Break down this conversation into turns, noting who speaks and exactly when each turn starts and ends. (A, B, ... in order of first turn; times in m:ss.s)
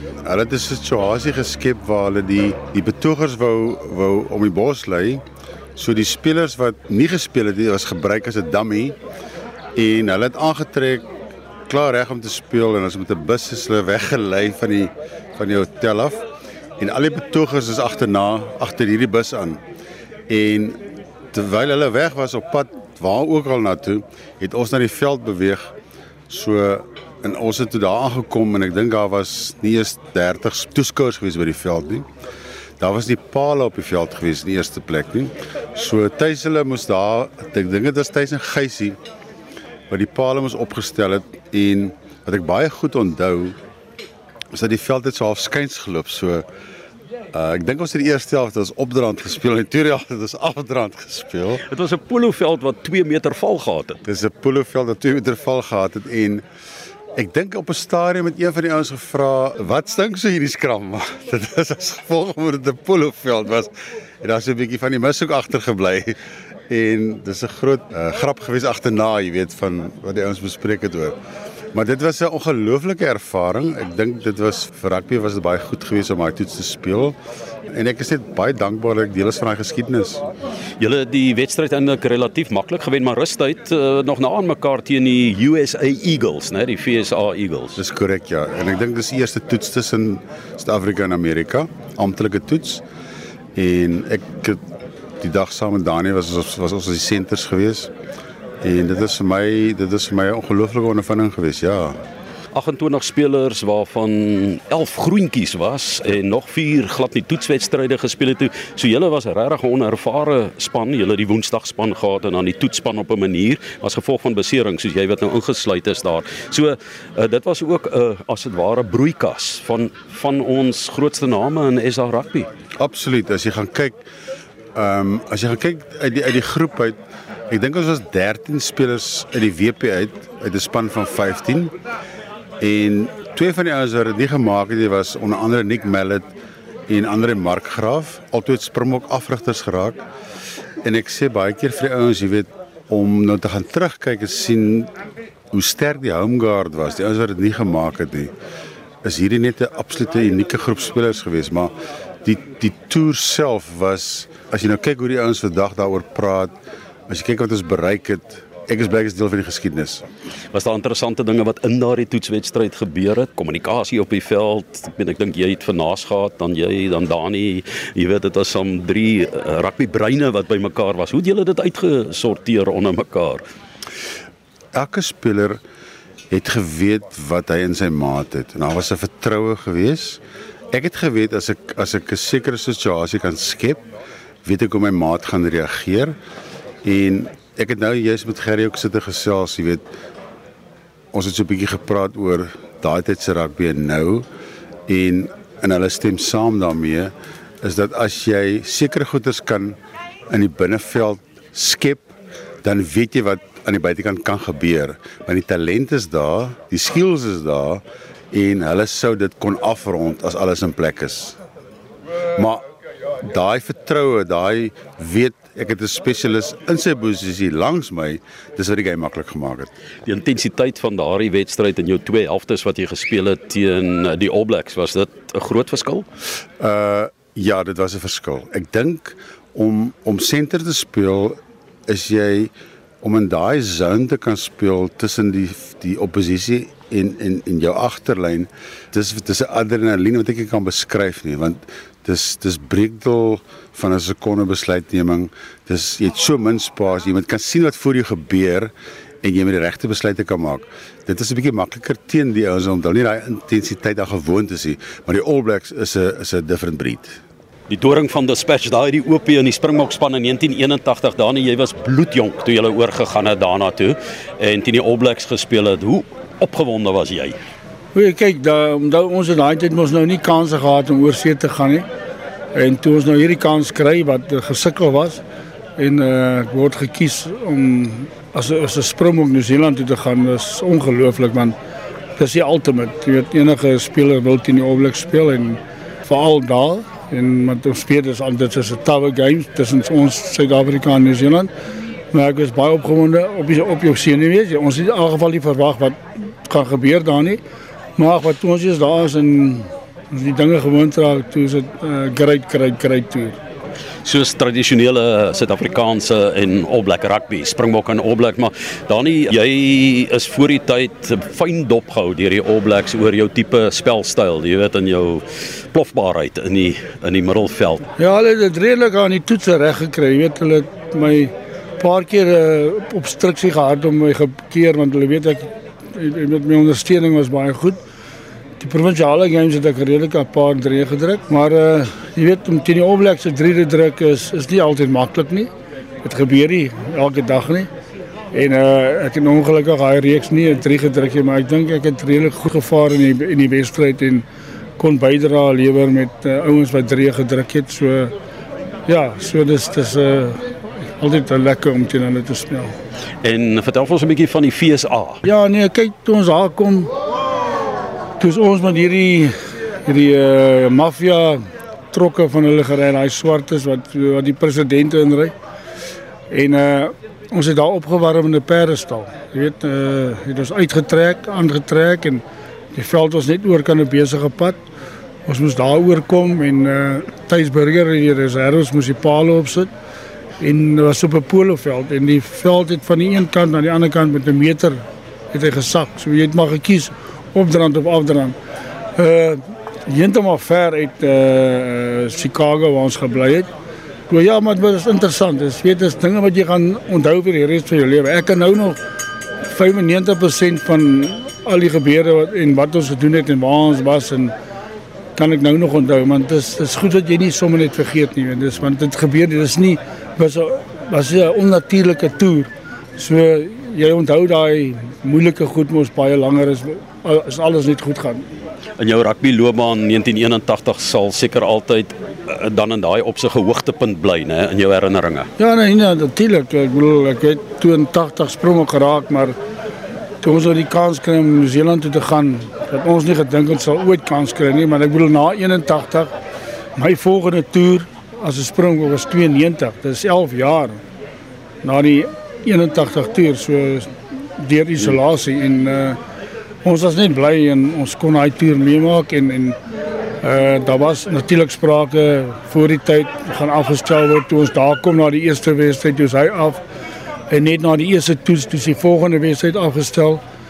0:00.2-0:05.2 A
0:05.8-0:09.0 A
0:09.8-0:11.1 A
0:11.7-0:16.2 A
0:16.8-0:19.6 A
0:20.3-0:20.8 A
0:21.3-0:25.7 A
0:26.3-0:32.1 A
0:32.8-0:39.0 A
0:39.9-0:43.6 A
0:44.5-0:46.4 A
0:47.3-0:51.6 A
0:51.7-0:54.0 B
0:54.0-0:56.4 A
0:57.2-1:06.2 A
1:06.7-1:11.2 A
1:11.7-1:17.2 A
1:17.7-1:20.2 A
1:20.8-1:27.8 B
1:27.8-1:32.8 A
1:33.6-1:34.6 A
1:35.2-1:37.9 A
1:38.6-1:42.0 A
1:42.5-2:02.5 B
2:02.8-2:04.0 A
2:04.8-2:07.0 A
2:07.5-2:11.7 A
2:12.6-2:16.3 A
2:16.9-2:20.0 A
2:20.8-2:24.9 A
2:25.5-2:28.3 A
2:29.0-2:31.7 A
2:32.2-2:36.6 A
2:37.1-2:40.0 A
2:40.5-2:53.4 B
2:54.8-2:55.6 A
2:56.3-3:00.2 A
3:00.7-3:03.8 A
3:04.4-3:06.2 A
3:06.8-3:09.8 A
3:11.1-3:14.2 A
3:14.9-3:19.8 A
3:20.3-3:22.1 A
3:22.6-3:31.4 A
3:32.4-3:32.6 A
3:33.2-3:39.7 A
3:40.0-3:46.1 B
3:46.6-3:52.5 A
3:53.0-4:08.7 A
4:09.2-4:17.2 A
4:17.7-4:27.4 B
4:27.9-4:31.9 C
4:32.5-4:35.2 C
4:35.8-4:41.6 C
4:42.2-4:51.5 C
4:52.1-4:57.4 C
4:58.0-5:03.4 C
5:04.0-5:17.9 B
5:18.0-5:27.8 C
5:28.6-5:35.5 C
5:36.0-5:37.7 C
5:38.3-5:44.2 C
5:44.8-5:48.1 C
5:48.9-5:50.4 C
5:51.0-5:52.8 C
5:53.2-5:55.2 B
5:55.2-5:56.9 C
5:58.2-5:59.3 C
5:59.9-6:01.4 C
6:01.9-6:05.3 C
6:06.3-6:14.6 C
6:15.3-6:19.7 C
6:20.4-6:24.8 C
6:25.3-6:28.4 C
6:29.0-6:33.5 C
6:34.1-6:38.8 C
6:39.4-6:44.3 C
6:45.2-6:58.3 C
6:58.8-7:05.3 B
7:05.4-7:09.4 C
7:10.2-7:16.1 C
7:16.8-7:20.8 C
7:21.6-7:26.0 C
7:26.6-7:29.6 C
7:30.2-7:36.6 C
7:37.3-7:40.2 C